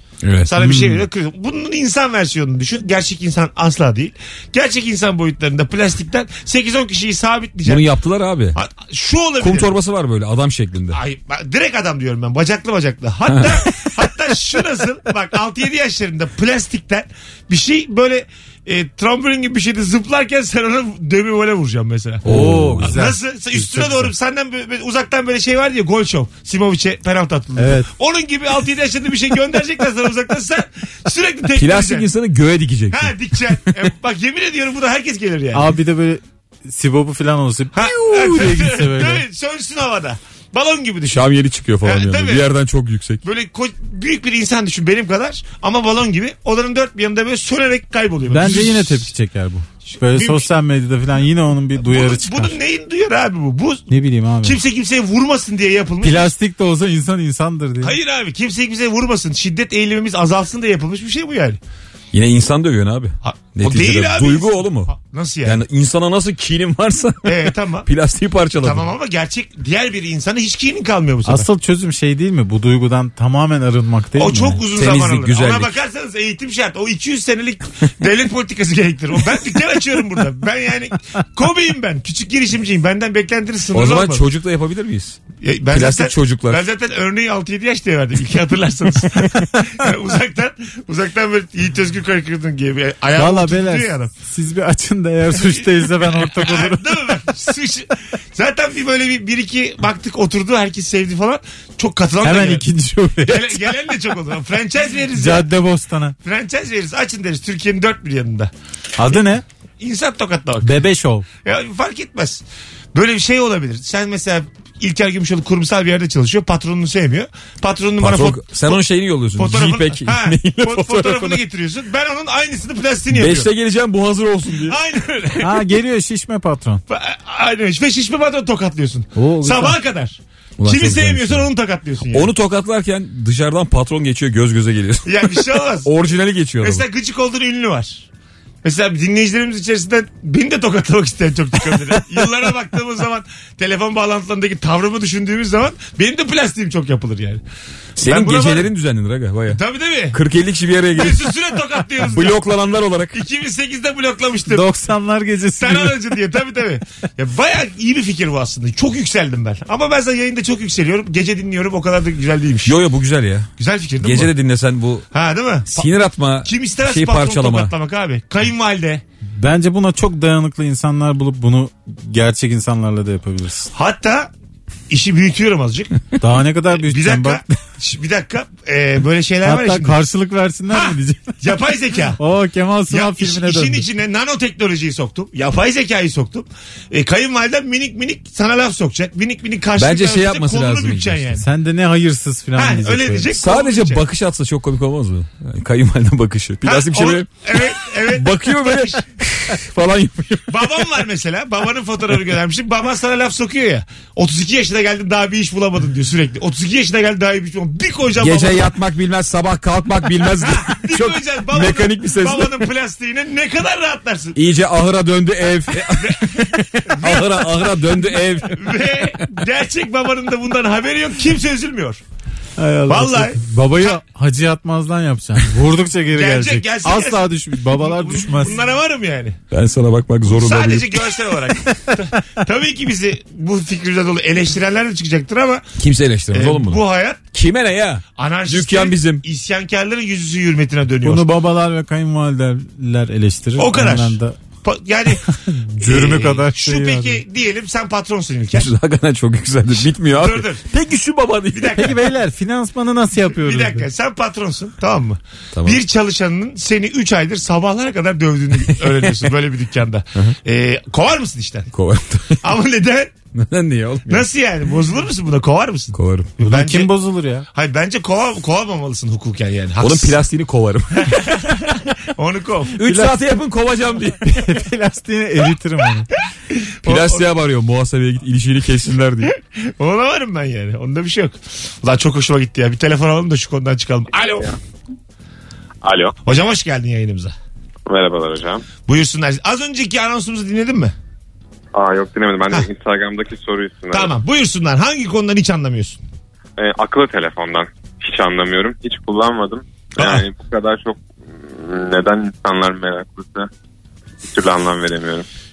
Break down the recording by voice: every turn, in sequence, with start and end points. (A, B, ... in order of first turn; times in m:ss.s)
0:00.2-0:00.5 A
0:00.4-0:07.8 B
0:00.6-0:00.9 C
0:07.6-0:08.6 A
0:08.5-0:09.7 B
0:09.4-0:11.0 A
0:10.9-0:32.1 B
0:13.3-0:13.6 A
0:22.2-0:23.0 A
0:22.2-0:24.1 C
0:27.6-0:27.9 C
0:31.6-0:33.8 A
0:32.9-0:35.7 B
0:35.5-0:39.2 C
0:37.7-0:41.3 B
0:41.1-0:43.2 A
0:41.8-0:42.5 B
0:43.2-0:49.1 B
0:48.3-0:52.5 C
0:49.8-0:50.5 B
0:51.8-0:53.9 B
0:53.9-0:54.6 C
0:54.4-0:56.3 B
0:56.0-0:57.9 C
0:57.8-1:01.6 B
1:02.1-1:04.9 A
1:03.2-1:05.6 B
1:05.4-1:08.9 A
1:07.2-1:07.9 B
1:08.6-1:11.5 B
1:11.2-1:14.6 C
1:14.2-1:24.3 B
1:14.7-1:15.7 A
1:23.7-1:25.2 A
1:25.4-1:34.1 B
1:25.7-1:26.6 A
1:33.2-1:37.1 C
1:35.3-1:42.6 B
1:42.2-1:43.6 C
1:43.2-1:45.5 B
1:45.1-1:46.2 C
1:46.2-1:48.5 B
1:49.0-1:49.4 C
1:49.8-1:50.8 B
1:50.6-1:51.2 C
1:51.4-1:58.8 B
1:58.0-2:01.4 A
1:59.4-2:03.5 B
2:03.1-2:04.8 A
2:04.6-2:05.6 B
2:05.4-2:06.8 C
2:06.9-2:12.3 B
2:09.2-2:09.8 C
2:10.6-2:11.5 A
2:12.1-2:16.8 A
2:15.0-2:15.9 B
2:16.6-2:18.0 B
2:18.6-2:27.4 B
2:28.0-2:29.6 A
2:28.0-2:28.7 B
2:29.5-2:30.2 B
2:30.1-2:31.4 A
2:30.9-2:32.4 B
2:32.0-2:33.1 A
2:33.1-2:34.6 B
2:34.5-2:36.0 C
2:35.6-2:42.8 B
2:42.6-2:43.5 A
2:43.6-2:44.3 B
2:44.0-2:45.1 A
2:45.1-2:49.0 B
2:45.7-2:47.7 A
2:49.4-2:53.7 C
2:53.7-2:54.3 B
2:54.9-2:55.9 B
2:56.2-2:57.4 C
2:56.7-3:00.0 B
2:59.4-3:01.4 C
3:00.7-3:02.2 B
3:02.2-3:03.8 C
3:02.9-3:11.4 B
3:09.8-3:11.4 A
3:11.4-3:13.3 C
3:12.6-3:14.0 B
3:13.4-3:17.3 A
3:16.6-3:19.0 B
3:18.0-3:20.7 A
3:20.5-3:28.7 B
3:28.2-3:32.6 A
3:30.3-3:34.4 B
3:34.4-3:38.7 A
3:36.0-3:37.5 B
3:38.4-3:42.0 B
3:42.6-3:48.6 C
3:42.9-3:44.0 B
3:46.1-3:49.4 B
3:49.5-3:51.2 A
3:50.2-3:55.7 B
3:55.8-3:56.8 A
3:56.3-3:57.2 B
3:57.3-3:59.2 A
3:58.2-4:01.3 B
4:01.0-4:04.4 C
4:03.6-4:08.7 B
4:05.2-4:07.2 C
4:08.5-4:11.9 A
4:10.0-4:10.6 B
4:11.5-4:12.0 B
4:11.8-4:13.9 C
4:13.3-4:21.7 B
4:15.5-4:15.8 A
4:18.7-4:19.3 A
4:21.7-4:22.5 A
4:22.4-4:23.1 B
4:23.3-4:24.2 A
4:24.1-4:26.9 B
4:25.9-4:26.3 A
4:26.4-4:27.4 C
4:27.5-4:30.2 B
4:29.8-4:31.5 A
4:30.9-4:32.8 B
4:32.8-4:34.4 A
4:32.8-4:33.1 C
4:34.2-4:36.1 C
4:36.8-4:37.2 B
4:36.8-4:39.3 A
4:39.5-4:44.5 B
4:45.8-4:46.2 D
4:46.2-4:47.3 B
4:47.9-4:48.6 D
4:48.8-4:50.9 B
4:51.7-4:54.1 D
4:53.9-4:56.0 B
4:56.6-5:03.5 D
5:00.0-5:00.2 B
5:04.2-5:05.2 D